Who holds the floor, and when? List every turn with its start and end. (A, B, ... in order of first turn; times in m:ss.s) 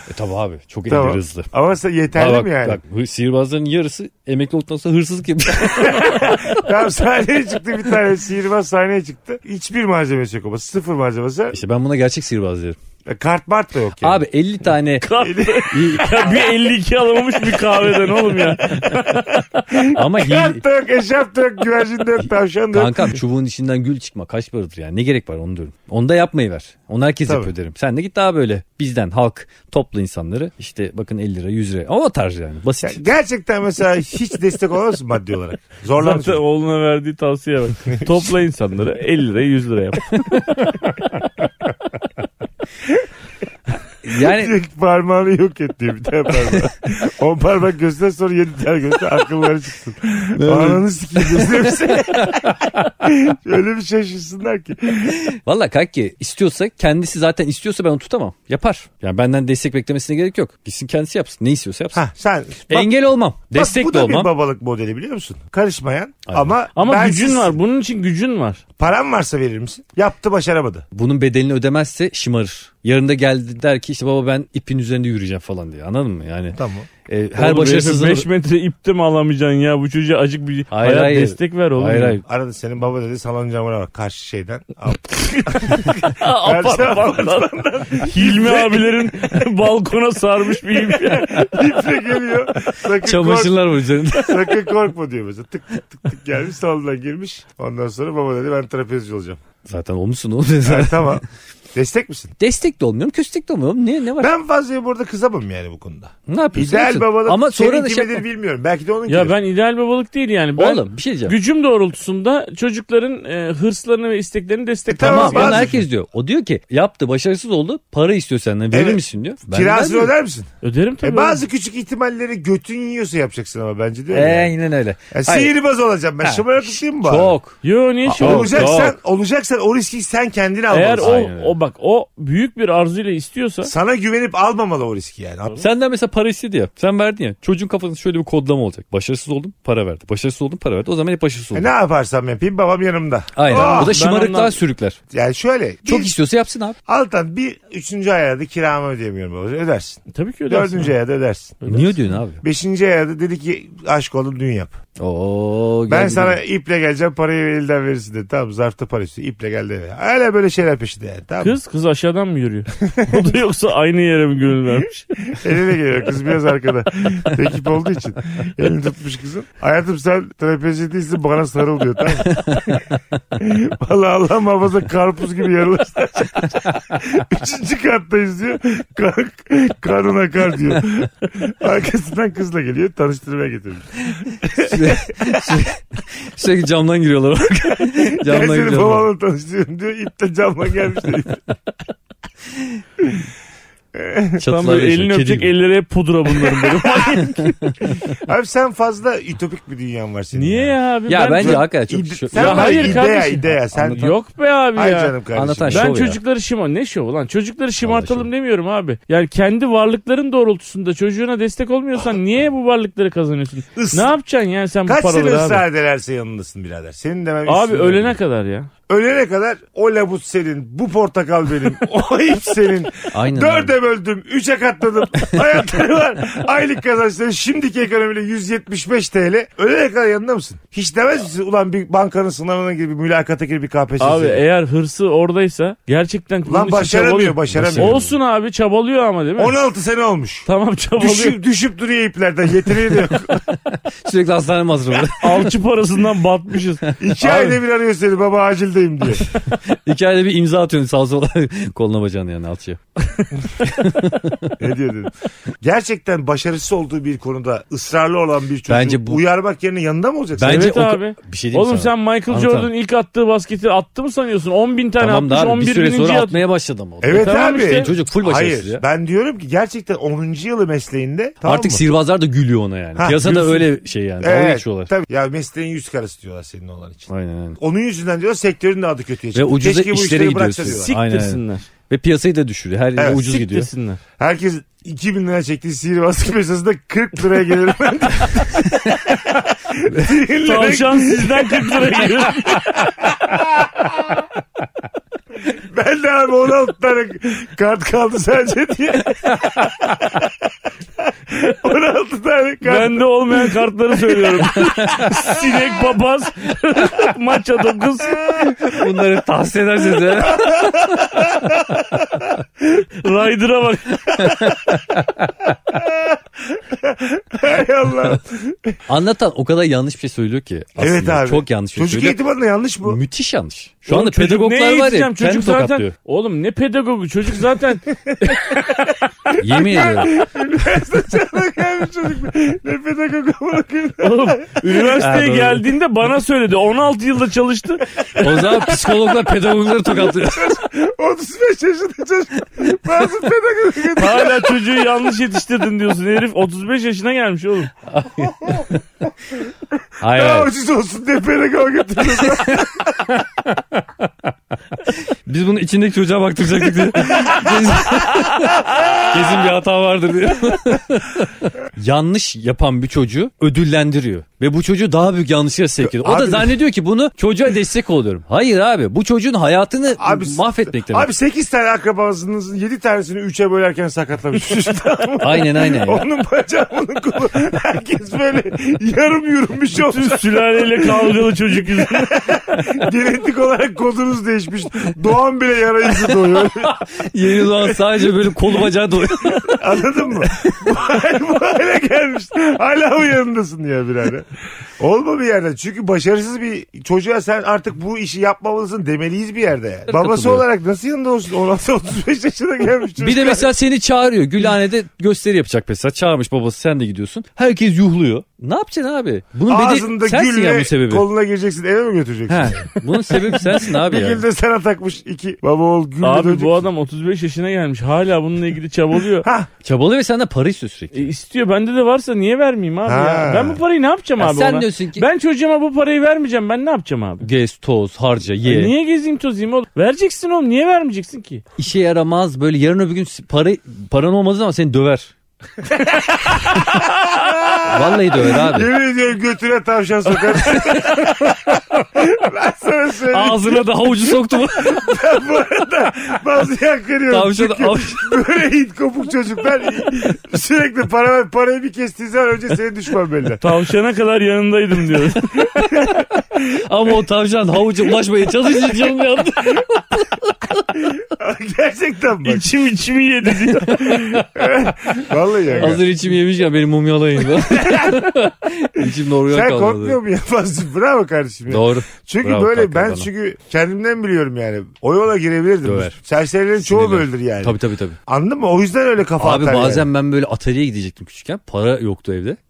0:00.1-0:01.5 A
0:00.9-0:02.8 B
0:02.2-0:06.6 A
0:05.6-0:11.6 B
0:11.5-0:12.8 A
0:13.1-0:14.2 B
0:14.0-0:15.1 A
0:15.0-0:19.6 C
0:15.2-0:16.4 B
0:15.7-0:16.2 A
0:19.7-0:23.2 B
0:19.9-0:20.6 A
0:22.7-0:33.0 A
0:27.3-0:27.5 B
0:32.8-0:36.4 B
0:36.0-0:40.4 C
0:37.9-0:38.2 B
0:40.3-0:40.7 A
0:44.0-0:44.5 A
0:44.1-0:55.2 B
0:50.4-0:52.9 A
0:55.1-1:02.0 A
1:01.9-1:02.9 B
1:02.7-1:04.3 A
1:03.5-1:07.6 B
1:06.3-1:06.6 A
1:06.8-1:08.6 C
1:08.8-1:10.9 B
1:10.9-1:18.3 A
1:16.6-1:16.9 B
1:17.4-1:22.2 C
1:20.7-1:22.2 A
1:22.3-1:29.4 B
1:25.2-1:31.5 C
1:30.7-1:39.4 B
1:33.0-1:34.6 A
1:39.7-1:41.2 A
1:40.6-1:42.3 B
1:42.4-1:44.3 A
1:44.2-1:49.4 B
1:46.3-1:48.2 A
1:49.1-1:55.8 C
1:50.6-1:51.4 A
1:54.9-1:55.8 B
1:55.0-2:00.1 A
1:58.7-2:00.5 B
2:00.6-2:01.4 C
2:01.0-2:04.5 B
2:04.1-2:05.5 A
2:05.1-2:07.4 B
2:06.2-2:07.6 A
2:07.6-2:08.8 C
2:08.0-2:11.3 B
2:08.2-2:09.0 A
2:10.7-2:13.7 C
2:11.0-2:11.6 A
2:13.6-2:15.6 B
2:15.6-2:21.7 A
2:21.5-2:24.0 B
2:23.4-2:25.0 A
2:23.5-2:24.6 C
2:25.1-2:26.1 B
2:25.9-2:26.8 A
2:26.9-2:31.6 B
2:30.1-2:31.0 C
2:31.6-2:32.0 C
2:31.7-2:32.4 A
2:32.4-2:34.8 B
2:35.0-2:36.4 A
2:35.9-2:41.6 B
2:41.4-2:45.3 C
2:42.8-2:43.4 B
2:45.3-3:05.6 B
3:04.5-3:09.1 A
3:07.9-3:11.4 B
3:13.0-3:13.2 B
3:13.9-3:14.4 B
3:14.4-3:15.5 A
3:14.4-3:18.0 C
3:17.1-3:18.0 A
3:18.1-3:20.8 B
3:20.3-3:21.7 C
3:21.1-3:24.1 A
3:21.3-3:24.1 B
3:22.3-3:25.2 C
3:24.8-3:25.9 B
3:25.3-3:26.2 A
3:25.7-3:35.6 C
3:27.8-3:28.3 A
3:33.8-3:34.1 B
3:34.9-3:38.2 B
3:37.5-3:38.7 C
3:38.9-3:54.4 B
3:43.1-3:43.8 A
3:54.0-3:59.6 C
3:56.5-3:58.1 B
3:57.5-3:58.1 A
3:59.4-4:00.5 B
4:00.5-4:01.4 C
4:01.0-4:03.4 B
4:03.5-4:05.5 A
4:05.2-4:07.6 C
4:07.0-4:09.3 B
4:09.7-4:14.6 A
4:14.6-4:20.8 B
4:18.7-4:19.2 A
4:20.4-4:22.7 A
4:20.4-4:26.4 C
4:25.0-4:28.8 A
4:27.0-4:31.8 B
4:27.1-4:27.9 C
4:31.4-4:34.9 A
4:33.0-4:41.0 B
4:37.1-4:37.6 A
4:39.3-4:43.7 A
4:40.7-4:41.7 C
4:43.0-4:43.3 B
4:43.1-4:44.0 C
4:44.2-4:54.2 B
4:48.6-4:49.2 A
4:50.4-4:52.9 C
4:55.5-5:00.4 B
5:01.0-5:05.6 B
5:02.6-5:08.4 C
5:08.2-5:08.7 B
5:08.7-5:11.4 A
5:10.1-5:12.3 B
5:12.8-5:14.6 C
5:14.1-5:15.4 A
5:15.7-5:18.8 B
5:18.9-5:22.2 A
5:20.8-5:23.0 B
5:22.8-5:25.9 A
5:23.9-5:28.9 C
5:28.3-5:34.7 B
5:29.4-5:30.2 A
5:34.0-5:38.8 C
5:35.0-5:35.7 A
5:38.2-5:40.6 A
5:39.8-5:44.6 B
5:44.0-5:47.7 C
5:47.9-5:48.8 A
5:48.2-5:48.7 B
5:50.0-5:50.5 A
5:50.1-5:53.2 B
5:52.5-5:54.0 A
5:54.8-6:11.1 A
5:57.3-5:57.6 B
6:05.8-6:06.6 B
6:10.0-6:28.1 B
6:15.2-6:16.0 A
6:19.8-6:22.2 C
6:26.0-6:30.7 A
6:29.4-6:43.5 B
6:39.9-6:40.4 A
6:43.0-6:51.1 A
6:49.5-6:56.6 B
6:52.3-6:54.2 A
6:56.0-6:59.3 C
6:59.2-6:59.5 B
6:59.6-7:01.1 A
7:00.9-7:07.3 C
7:02.8-7:03.6 B
7:04.2-7:05.1 A
7:07.2-7:08.7 A
7:08.4-7:11.4 C
7:11.6-7:15.1 A
7:15.6-7:33.4 B
7:16.4-7:16.8 A
7:17.6-7:18.7 A
7:20.4-7:21.6 A
7:23.1-7:24.9 A
7:27.1-7:28.1 A
7:33.4-7:35.6 C
7:35.5-7:40.8 A
7:35.5-7:36.6 B
7:40.8-7:42.5 B
7:42.2-7:44.2 C
7:43.7-7:44.3 A
7:43.9-7:45.8 B
7:45.6-7:50.0 A
7:47.3-7:59.9 B
7:51.5-7:53.1 A
7:55.6-7:56.0 A
7:56.6-7:58.0 A
7:59.2-8:02.4 A